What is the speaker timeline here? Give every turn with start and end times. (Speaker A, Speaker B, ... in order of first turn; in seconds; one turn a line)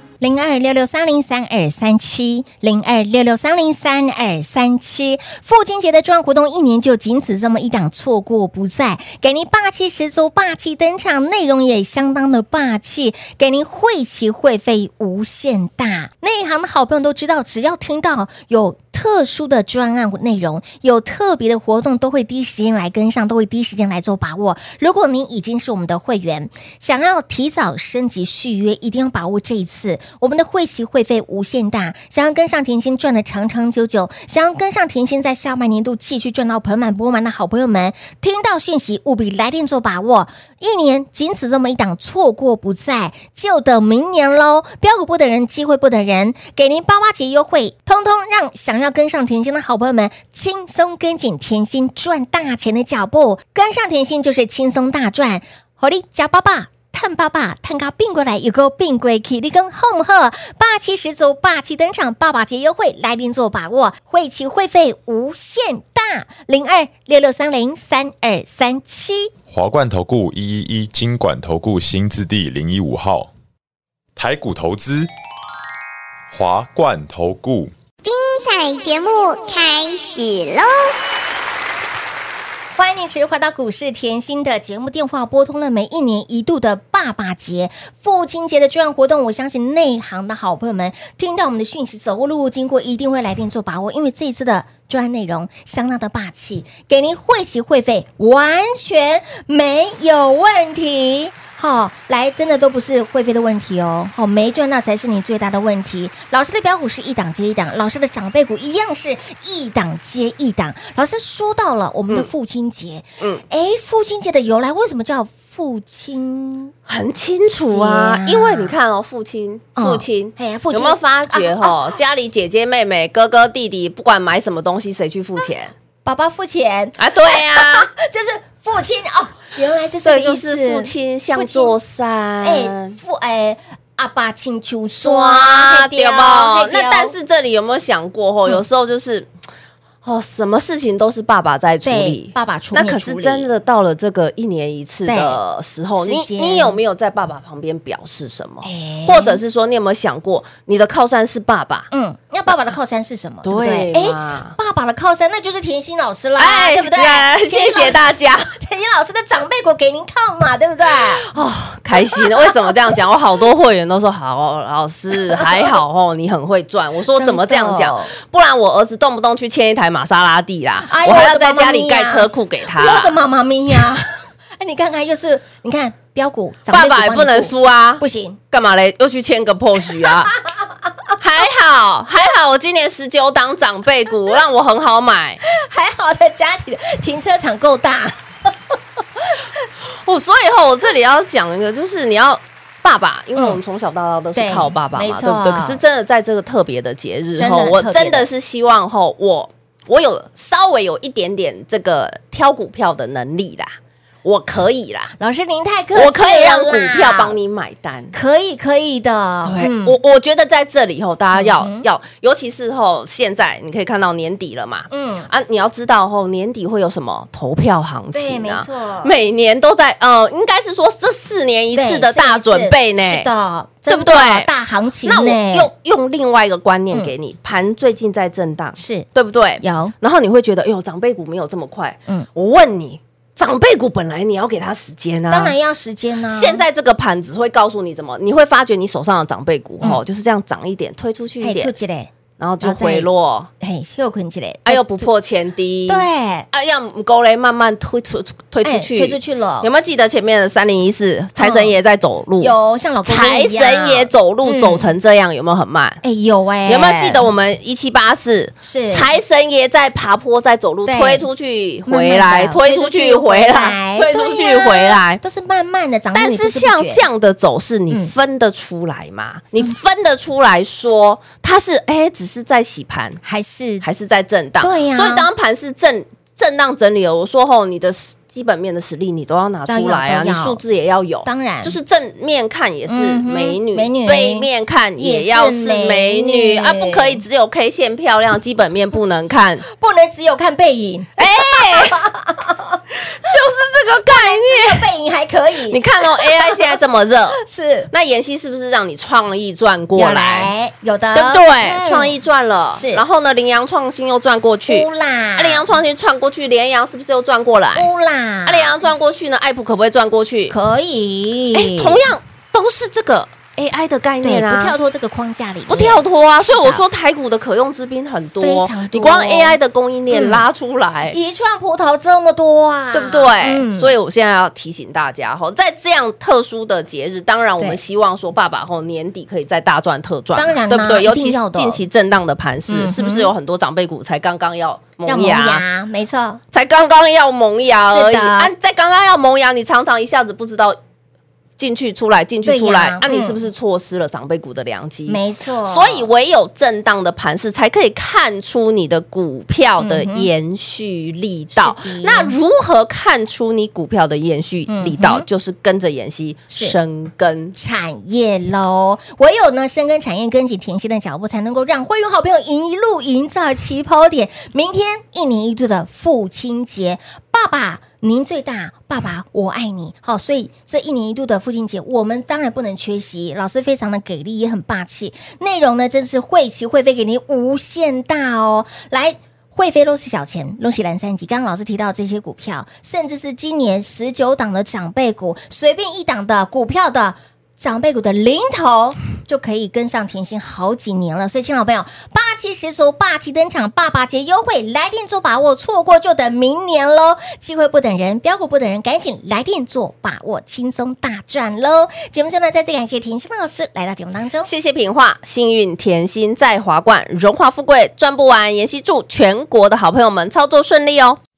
Speaker A: 0.2-69.3
Speaker B: 69.5-73.3
Speaker B: 74.2-75.1
Speaker B: 76.3-77.7
Speaker C: 78.0-80.9
Speaker A: 82.8-116.7
Speaker D: 116.9-125.7
Speaker A: 117.6-118.7
Speaker A: 119.8-122.0
Speaker A: 126.0-131.8
Speaker D: 127.0-127.9
Speaker D: 130.0-133.0
Speaker A: 132.4-137.1
Speaker D: 135.0-139.3
Speaker D: 140.0-151.9
Speaker A: 141.8-143.5
Speaker A: 145.1-145.4
Speaker A: 146.0-146.8
Speaker A: 148.6-149.4
Speaker A: 151.9-161.2
Speaker D: 153.4-154.6
Speaker D: 156.4-158.5
Speaker D: 161.0-173.2
Speaker A: 165.3-165.6
Speaker A: 167.1-168.1
Speaker A: 170.9-178.4
Speaker D: 176.7-180.3
Speaker A: 180.0-180.6
Speaker D: 181.2-185.4
Speaker A: 185.5-188.5
Speaker D: 190.1-203.7
Speaker A: 194.3-195.8
Speaker A: 197.4-198.3
Speaker D: 204.2-205.1
Speaker A: 205.2-207.3
Speaker D: 205.9-208.1
Speaker A: 208.1-209.9
Speaker D: 209.4-223.3
Speaker A: 211.3-211.8
Speaker A: 214.9-215.3
Speaker A: 218.1-219.1
Speaker A: 221.7-225.7
Speaker D: 223.9-224.5
Speaker D: 225.0-235.5
Speaker A: 228.8-229.1
Speaker A: 229.6-229.9
Speaker A: 235.3-236.6
Speaker D: 236.3-241.7
Speaker A: 241.4-243.1
Speaker D: 242.4-243.5
Speaker A: 243.6-245.1
Speaker D: 244.7-252.5
Speaker A: 245.9-246.5
Speaker A: 248.6-249.7
Speaker A: 251.4-251.7
Speaker A: 252.4-254.9
Speaker D: 253.0-256.0
Speaker A: 256.0-257.3
Speaker D: 256.6-265.2
Speaker A: 258.6-259.1
Speaker A: 260.9-261.2
Speaker A: 261.9-267.0
Speaker D: 266.1-273.2
Speaker A: 273.2-273.8
Speaker D: 273.8-289.6
Speaker A: 274.6-275.3
Speaker A: 279.7-280.6
Speaker A: 281.2-281.8
Speaker A: 282.9-284.5
Speaker A: 285.0-287.2
Speaker A: 289.7-292.8
Speaker D: 291.2-292.0
Speaker D: 293.0-294.9
Speaker A: 294.1-296.6
Speaker D: 295.7-300.5
Speaker A: 297.4-297.9
Speaker A: 299.9-302.1
Speaker D: 301.1-307.9
Speaker A: 302.7-303.0
Speaker A: 304.7-305.7
Speaker A: 307.8-308.8
Speaker D: 308.4-310.5
Speaker A: 310.5-312.0
Speaker D: 311.5-314.8
Speaker A: 314.2-316.8
Speaker D: 315.7-321.1
Speaker A: 318.4-319.6
Speaker A: 320.1-320.4
Speaker A: 321.1-323.9
Speaker D: 322.9-335.6
Speaker A: 330.4-331.8
Speaker A: 332.7-333.3
Speaker A: 335.1-336.4
Speaker D: 336.5-340.8
Speaker A: 337.8-338.5
Speaker D: 341.6-357.6
Speaker A: 342.4-343.4
Speaker A: 345.1-346.1
Speaker A: 349.8-350.3
Speaker A: 351.5-352.4
Speaker A: 354.7-355.2
Speaker A: 356.5-356.8
Speaker A: 357.6-404.5
Speaker D: 404.4-411.2